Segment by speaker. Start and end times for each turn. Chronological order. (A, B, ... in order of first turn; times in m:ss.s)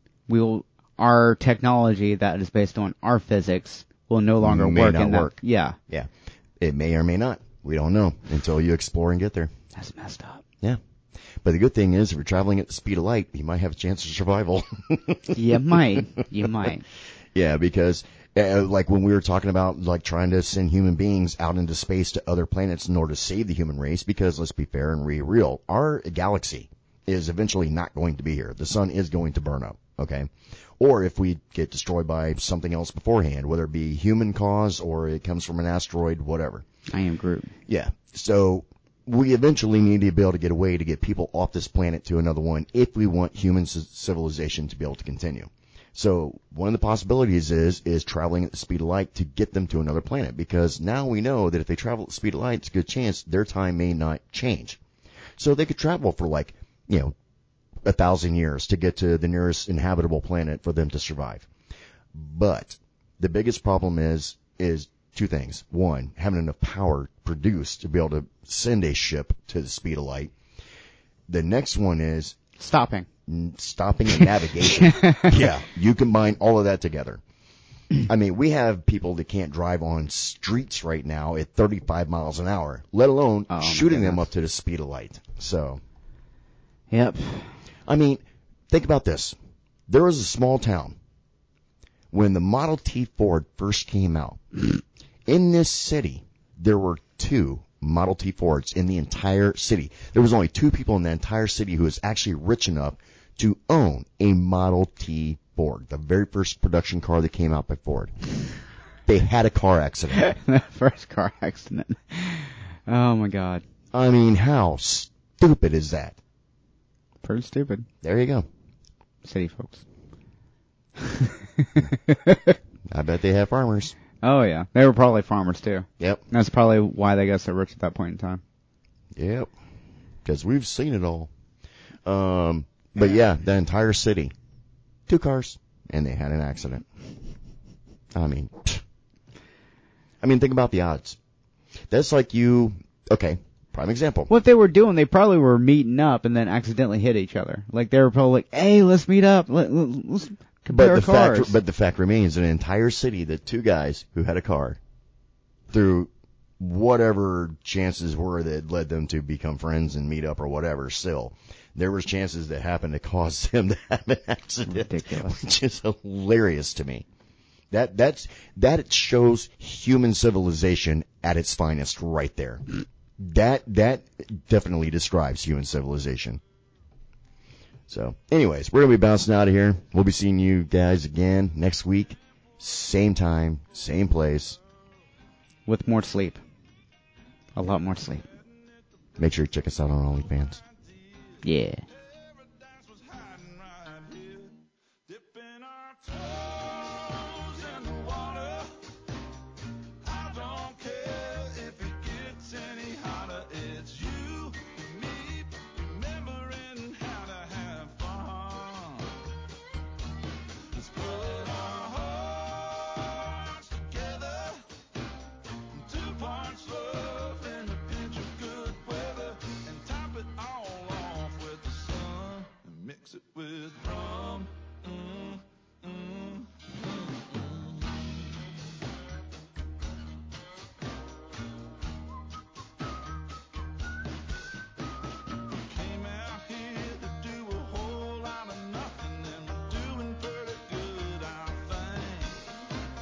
0:00.3-0:05.8 A
0:04.4-0:05.4 B
0:05.9-0:09.5 B
0:09.7-0:10.4 A
0:11.4-0:16.7 B
0:15.3-0:16.8 A
0:17.3-0:36.6 B
0:36.9-0:37.5 A
0:37.7-0:54.8 B
0:55.4-0:57.1 B
0:57.8-1:01.5 B
1:02.1-1:10.3 B
1:11.3-1:12.4 B
1:12.6-1:13.1 A
1:13.3-1:17.2 B
1:14.7-1:15.4 A
1:18.0-1:25.8 B
1:23.5-1:24.3 A
1:26.9-1:27.6 A
1:27.8-1:29.3 B
1:29.9-1:31.0 B
1:32.1-1:48.1 B
1:49.1-1:50.3 B
1:50.1-1:53.6 A
1:53.9-1:56.2 B
1:57.2-1:57.9 A
1:58.0-1:58.5 B
1:59.2-1:59.8 A
2:01.0-2:02.6 A
2:02.9-2:03.9 B
2:04.2-2:08.4 A
2:06.0-2:06.2 B
2:09.1-2:09.5 B
2:10.2-2:11.3 B
2:12.0-2:14.3 B
2:15.1-2:16.8 B
2:18.1-2:18.8 B
2:20.2-2:21.2 B
2:21.9-2:24.3 B
2:24.3-2:31.6 A
2:30.7-2:34.8 B
2:35.7-2:47.0 B
2:44.7-2:45.4 A
2:47.7-2:56.4 B
2:57.9-3:04.6 B
3:05.7-3:06.4 A
3:07.6-3:08.2 A
3:09.2-3:10.6 B
3:10.8-3:18.8 C
3:11.4-3:11.8 A
3:20.0-3:29.2 C
3:30.7-3:34.7 C
3:35.7-3:48.2 C
3:55.5-4:02.5 C